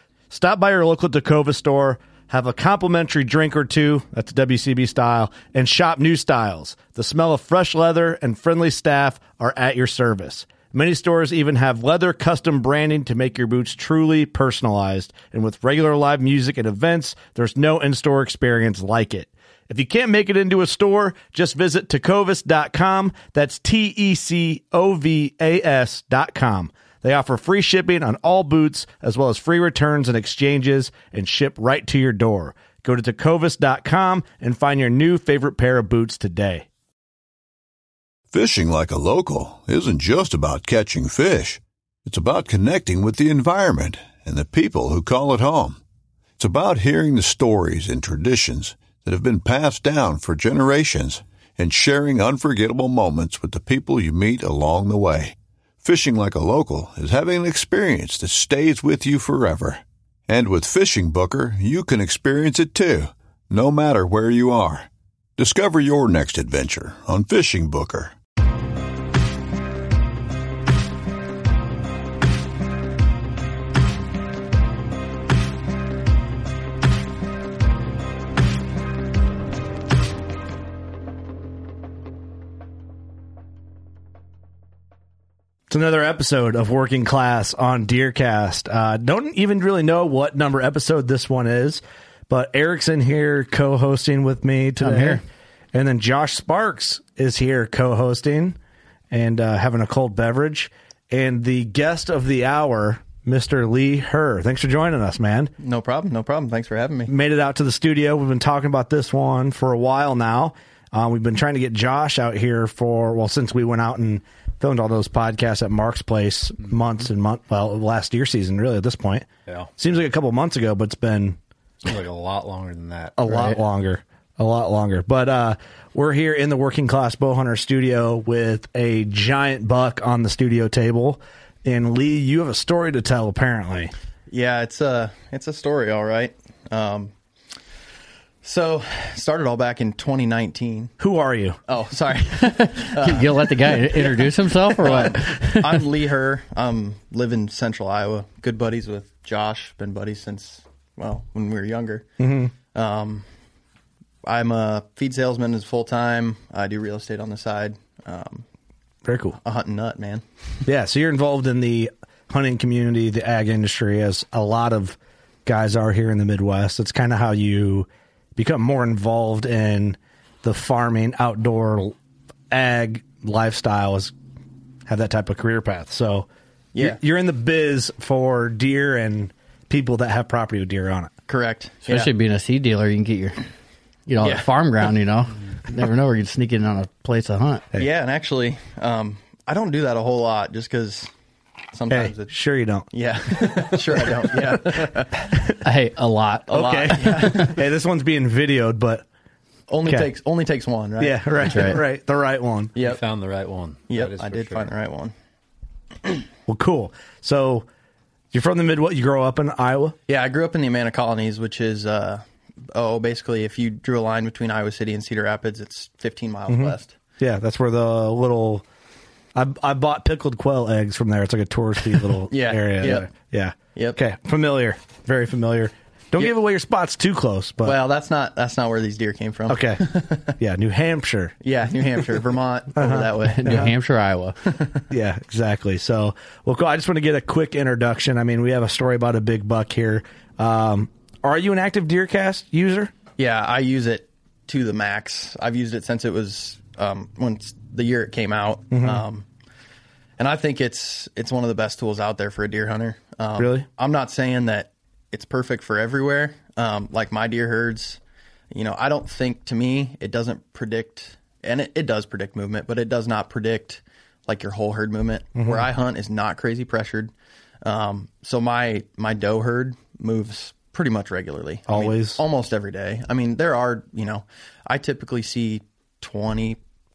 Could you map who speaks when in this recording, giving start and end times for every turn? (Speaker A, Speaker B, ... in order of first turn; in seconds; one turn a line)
Speaker A: 0.3-36.6
Speaker B: 38.3-45.8
Speaker B: 46.4-68.1
Speaker A: 85.7-98.6
Speaker C: 94.8-95.2
Speaker A: 99.1-105.5
Speaker D: 105.6-107.1
Speaker A: 107.1-119.2
Speaker A: 119.8-121.4
Speaker E: 121.8-123.2
Speaker A: 123.2-133.9
Speaker C: 123.3-123.5
Speaker D: 134.3-137.1
Speaker D: 138.4-140.9
Speaker A: 141.0-141.6
Speaker D: 141.7-152.1
Speaker C: 142.4-145.8
Speaker A: 152.2-152.5
Speaker D: 152.7-153.2
Speaker D: 154.2-158.4
Speaker A: 159.0-159.4
Speaker D: 159.4-160.2
Speaker A: 160.6-171.9
Speaker A: 172.5-174.1
Speaker A: 174.9-181.1
Speaker D: 176.7-177.0
Speaker D: 181.3-182.1
Speaker C: 181.9-183.4
Speaker C: 184.1-187.7
Speaker D: 184.2-184.5
Speaker D: 187.8-191.1
Speaker D: 191.7-192.3
Speaker A: 191.9-195.6
Speaker D: 192.9-195.3
Speaker C: 195.6-197.5
Speaker D: 196.5-197.6
Speaker A: 196.5-199.0
Speaker D: 199.7-201.8
Speaker A: 201.0-202.7
Speaker C: 201.5-201.8
Speaker D: 202.7-203.0
Speaker E: 202.8-204.7
Speaker D: 203.9-205.1
Speaker A: 206.5-207.7
Speaker A: 208.3-210.0
Speaker D: 210.1-216.9
Speaker A: 216.5-218.6
Speaker A: 219.3-227.8
Speaker D: 222.3-223.1
Speaker D: 227.6-230.3
Speaker A: 229.5-231.3
Speaker D: 231.4-233.7
Speaker A: 232.7-233.7
Speaker C: 233.2-234.4
Speaker D: 234.4-234.8
Speaker A: 234.9-242.9
Speaker D: 243.2-249.2
Speaker A: 248.7-249.0
Speaker D: 250.2-258.0
Speaker A: 253.4-253.7
Speaker D: 258.5-267.1
Speaker A: 265.4-265.6
Speaker D: 267.6-276.6
Speaker A: 271.7-272.2